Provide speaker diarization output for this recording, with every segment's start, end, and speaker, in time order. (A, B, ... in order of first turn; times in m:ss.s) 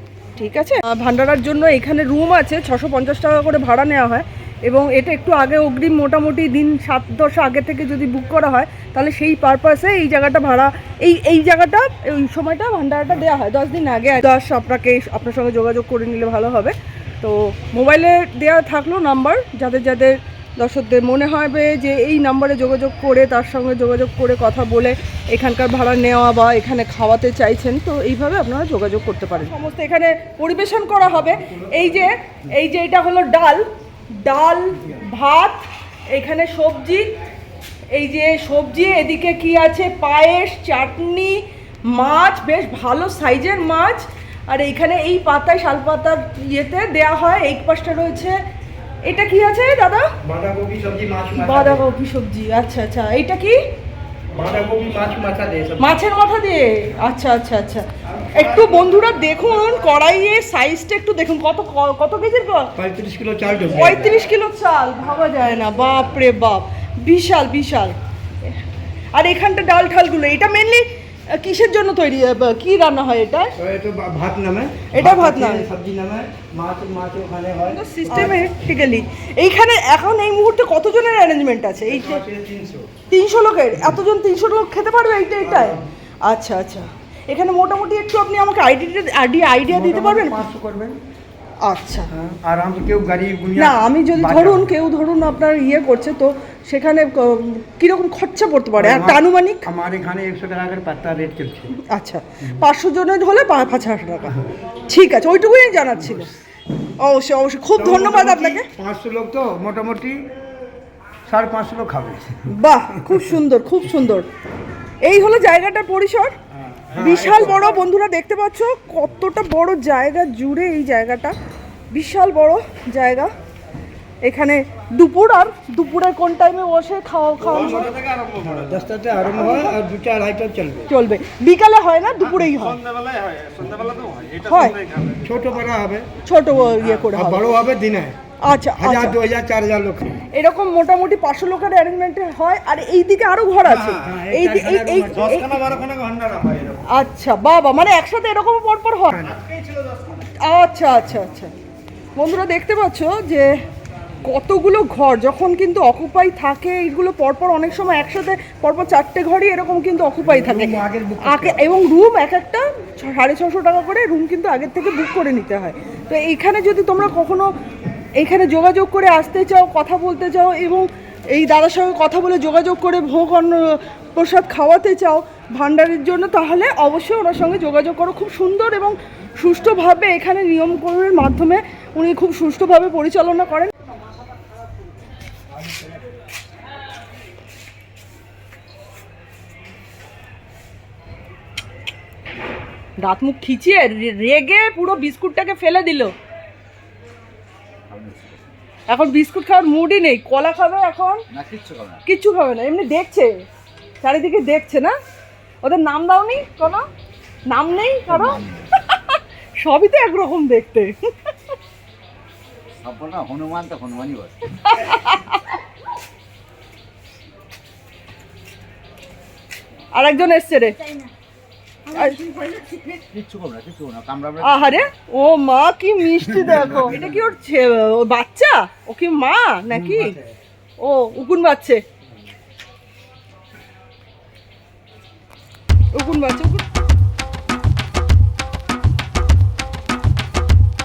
0:00.4-0:33.6 A
0:31.1-0:32.1 B
0:34.2-0:37.1 A
0:37.9-0:48.4 A
0:49.1-0:50.1 A
0:50.2-0:51.8 B
0:51.4-0:53.6 A
0:54.3-0:55.9 B
0:55.8-1:02.7 A
0:58.2-0:58.8 B
1:02.8-1:04.2 B
1:03.7-1:08.6 A
1:09.2-1:13.5 A
1:13.6-1:18.5 B
1:14.9-1:15.7 A
1:17.7-1:22.2 A
1:21.8-1:22.9 B
1:23.1-1:30.4 A
1:25.4-1:25.8 B
1:29.7-1:31.0 B
1:31.6-1:32.1 A
1:32.1-1:34.7 B
1:33.6-1:39.7 A
1:38.8-1:41.8 B
1:41.9-1:46.3 A
1:47.0-1:48.7 A
1:47.8-1:50.3 B
1:51.3-1:52.5 B
1:52.5-1:54.3 A
1:55.0-1:56.3 A
1:56.8-1:57.7 B
1:56.9-2:01.4 A
2:01.9-2:03.3 A
2:04.2-2:08.0 A
2:07.5-2:10.9 B
2:10.9-2:12.9 A
2:13.2-2:14.3 B
2:14.4-2:14.8 A
2:14.9-2:16.1 B
2:16.2-2:17.5 A
2:16.6-2:18.2 B
2:18.4-2:19.2 A
2:18.8-2:20.2 B
2:20.3-2:25.6 A
2:23.6-2:26.7 B
2:26.9-2:29.2 A
2:29.1-2:29.5 B
2:30.4-2:31.5 A
2:32.2-2:33.5 A
2:34.2-2:47.5 A
2:40.2-2:41.6 B
2:48.2-3:03.7 A
3:13.0-3:16.1 A
3:17.9-3:18.5 C
3:18.9-3:21.2 A
3:21.3-3:22.0 C
3:22.0-3:23.4 A
3:24.0-3:24.9 A
3:25.6-3:26.8 A
3:27.5-3:31.5 A
3:28.1-3:28.6 C
3:32.8-3:34.4 C
3:34.6-3:35.5 A
3:39.9-3:40.8 A
3:41.9-3:42.4 A
3:42.7-3:44.6 C
3:44.4-3:50.2 A
3:49.7-3:50.2 B
3:50.8-3:51.8 A
3:55.9-3:56.6 A